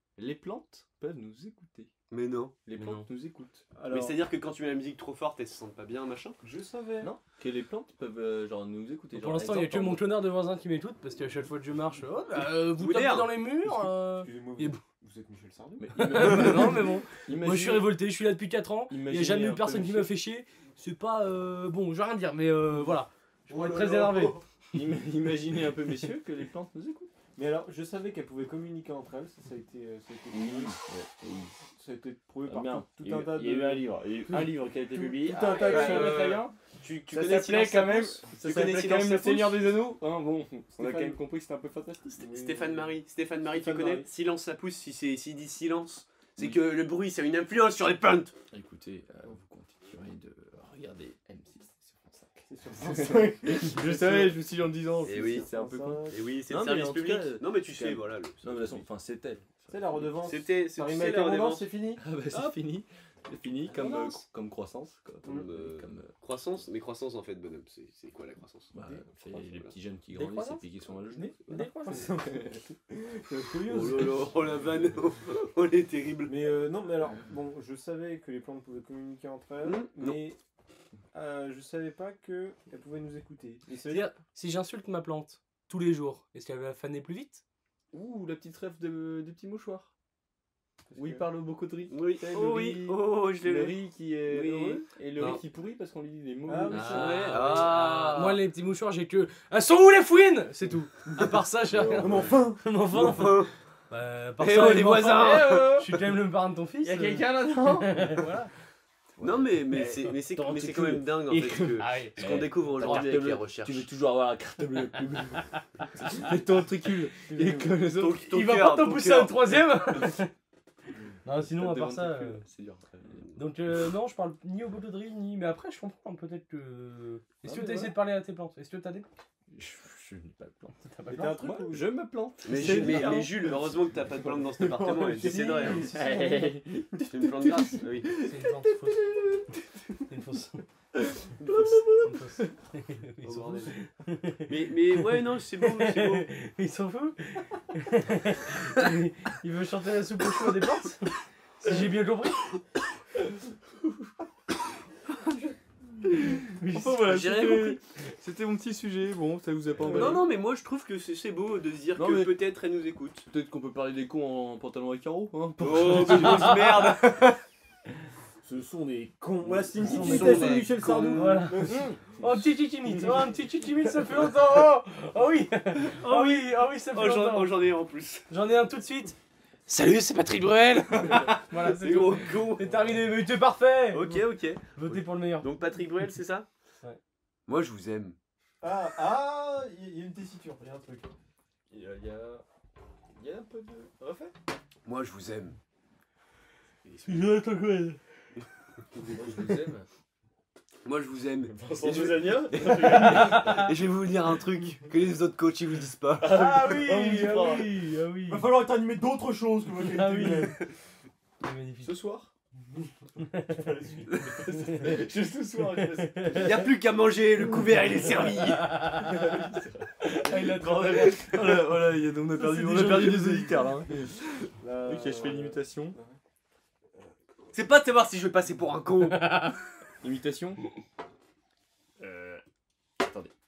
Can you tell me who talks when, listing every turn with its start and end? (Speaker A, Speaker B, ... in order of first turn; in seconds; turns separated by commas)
Speaker A: 0.2-1.9, Speaker B: 2.1-2.5, Speaker A: 2.6-3.6, Speaker C: 2.8-3.1, Speaker D: 3.7-4.2, Speaker B: 3.9-6.4, Speaker D: 6.4-7.1, Speaker A: 7.0-10.1, Speaker C: 9.1-14.8, Speaker B: 12.7-13.3, Speaker D: 13.7-16.5, Speaker A: 15.8-17.9, Speaker C: 15.9-24.4, Speaker A: 18.9-20.1, Speaker D: 23.5-24.4, Speaker A: 24.7-27.1, Speaker D: 27.4-30.8, Speaker A: 30.3-31.5, Speaker D: 31.7-36.3, Speaker A: 32.4-36.5, Speaker B: 35.5-39.8, Speaker A: 37.1-42.1, Speaker D: 40.8-41.2, Speaker B: 42.1-48.3, Speaker D: 42.2-44.1, Speaker A: 48.5-60.2, Speaker D: 52.5-54.4, Speaker D: 55.0-56.2, Speaker B: 55.0-55.5, Speaker B: 56.1-58.8, Speaker D: 59.7-62.0, Speaker B: 60.2-61.7, Speaker A: 62.0-66.1, Speaker C: 63.7-64.2, Speaker B: 65.2-68.7, Speaker A: 68.7-72.6, Speaker B: 69.3-69.7, Speaker C: 70.1-70.6, Speaker C: 71.5-72.1, Speaker D: 71.5-74.3, Speaker B: 73.7-76.5, Speaker A: 73.8-74.1, Speaker D: 76.2-80.4, Speaker B: 79.6-80.2, Speaker D: 81.1-84.1, Speaker C: 83.8-87.4, Speaker A: 87.9-89.9, Speaker D: 90.9-91.3, Speaker A: 90.9-97.7, Speaker B: 91.9-95.4, Speaker D: 96.5-97.2, Speaker C: 96.7-108.5, Speaker B: 96.9-98.4, Speaker A: 101.7-102.4, Speaker D: 101.9-102.6, Speaker B: 102.9-103.5, Speaker B: 104.4-105.9, Speaker A: 105.2-105.9, Speaker A: 106.8-108.3, Speaker A: 109.2-118.2, Speaker B: 109.2-113.9, Speaker C: 109.8-111.0, Speaker C: 111.7-113.1, Speaker D: 117.3-117.7, Speaker B: 117.9-119.4, Speaker C: 118.3-120.3, Speaker C: 121.2-122.4, Speaker A: 121.3-123.2, Speaker C: 123.3-129.1, Speaker A: 127.4-128.0, Speaker A: 129.5-130.8, Speaker C: 130.8-131.6, Speaker D: 131.1-131.9, Speaker A: 131.4-134.5, Speaker B: 132.4-135.9, Speaker D: 132.5-133.3, Speaker C: 132.6-133.2, Speaker D: 134.6-137.0, Speaker A: 135.2-139.6, Speaker B: 137.1-138.2, Speaker C: 138.2-139.0, Speaker C: 140.1-140.6, Speaker A: 140.9-142.5, Speaker C: 142.0-152.5, Speaker B: 143.2-143.8, Speaker B: 144.5-146.3, Speaker A: 156.1-160.3, Speaker C: 156.3-157.2, Speaker B: 157.1-157.8, Speaker B: 159.9-163.2, Speaker D: 159.9-160.2, Speaker A: 161.9-162.3, Speaker A: 163.3-166.8, Speaker B: 165.6-167.4, Speaker C: 166.1-166.9, Speaker D: 168.4-171.9, Speaker B: 169.8-171.4, Speaker C: 169.8-177.6, Speaker A: 171.6-172.4, Speaker B: 175.9-178.3, Speaker C: 178.3-179.2, Speaker C: 179.7-184.2, Speaker A: 180.9-181.4, Speaker B: 181.6-182.9, Speaker B: 183.9-186.5, Speaker C: 184.7-185.5, Speaker B: 187.5-188.2, Speaker D: 188.6-191.1, Speaker A: 191.7-192.4, Speaker A: 193.1-194.3, Speaker B: 194.8-195.6, Speaker B: 196.8-197.3, Speaker C: 197.1-198.0, Speaker A: 199.1-199.9, Speaker B: 200.8-206.5, Speaker A: 201.6-203.6, Speaker C: 202.6-203.7, Speaker A: 206.2-207.8, Speaker C: 206.3-208.6, Speaker D: 208.3-210.6, Speaker C: 209.8-210.6, Speaker C: 211.4-212.0, Speaker A: 211.8-212.3, Speaker C: 213.2-213.7, Speaker D: 213.4-214.5, Speaker C: 214.4-215.1, Speaker A: 214.4-216.6, Speaker C: 215.7-216.7, Speaker B: 216.3-218.8, Speaker C: 218.4-219.4, Speaker A: 218.8-226.0, Speaker C: 220.0-221.6, Speaker C: 222.3-223.5, Speaker D: 222.7-223.3, Speaker D: 224.6-226.2, Speaker B: 227.5-229.5, Speaker C: 229.2-229.5, Speaker A: 230.0-230.6, Speaker A: 232.0-232.4, Speaker A: 233.0-233.3